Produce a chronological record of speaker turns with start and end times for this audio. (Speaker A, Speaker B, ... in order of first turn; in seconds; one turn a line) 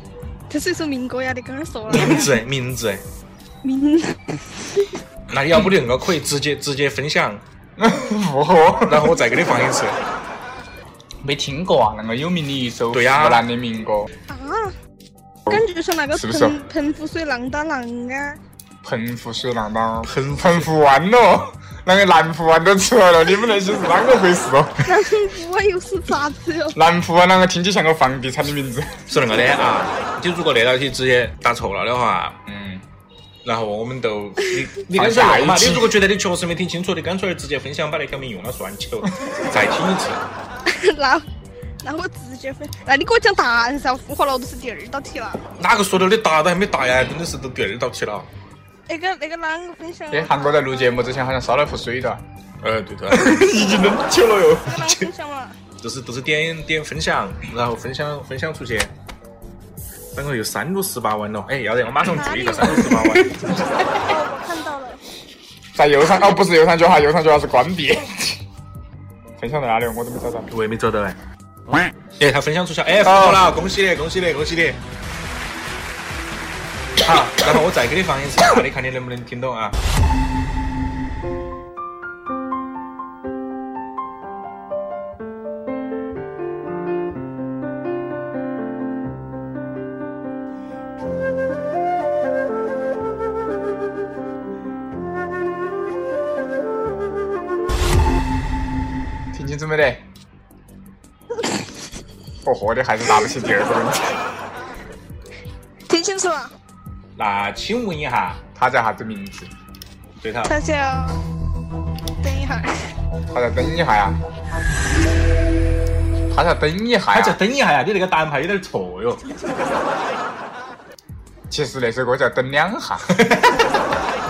Speaker A: 0.5-2.3
Speaker B: 1.9-3.0
Speaker A: 3.6-4.8
Speaker B: 5.3-7.4
Speaker C: 7.8-9.1
Speaker B: 8.9-10.0
Speaker C: 11.2-14.1
Speaker B: 12.9-13.4
Speaker A: 14.3-14.7
Speaker C: 15.5-16.6
Speaker A: 15.5-18.4
Speaker C: 18.8-24.9
Speaker B: 20.1-20.7
Speaker A: 24.9-26.8
Speaker C: 26.7-29.2
Speaker B: 29.1-32.4
Speaker C: 32.5-32.8
Speaker B: 33.5-40.2
Speaker C: 34.9-36.0
Speaker A: 40.7-41.2
Speaker A: 41.8-45.4
Speaker B: 45.6-48.3
Speaker A: 48.9-50.6
Speaker C: 50.1-52.2
Speaker B: 52.6-53.5
Speaker C: 53.1-54.8
Speaker A: 54.7-55.6
Speaker B: 55.8-58.9
Speaker B: 60.1-63.4
Speaker A: 62.1-63.2
Speaker A: 64.0-65.0
Speaker C: 65.8-68.4
Speaker C: 69.4-70.5
Speaker B: 70.5-71.2
Speaker B: 72.2-74.8
Speaker C: 73.0-73.5
Speaker B: 77.0-79.8
Speaker C: 99.3-100.0
Speaker C: 102.4-104.2
Speaker A: 105.9-106.5
Speaker B: 107.2-108.4
Speaker C: 108.5-109.5
Speaker B: 110.2-110.5
Speaker A: 110.5-111.2
Speaker A: 112.2-112.8
Speaker C: 113.3-114.2
Speaker C: 116.3-117.4
Speaker B: 117.1-119.2
Speaker C: 121.5-123.2
Speaker B: 123.2-123.6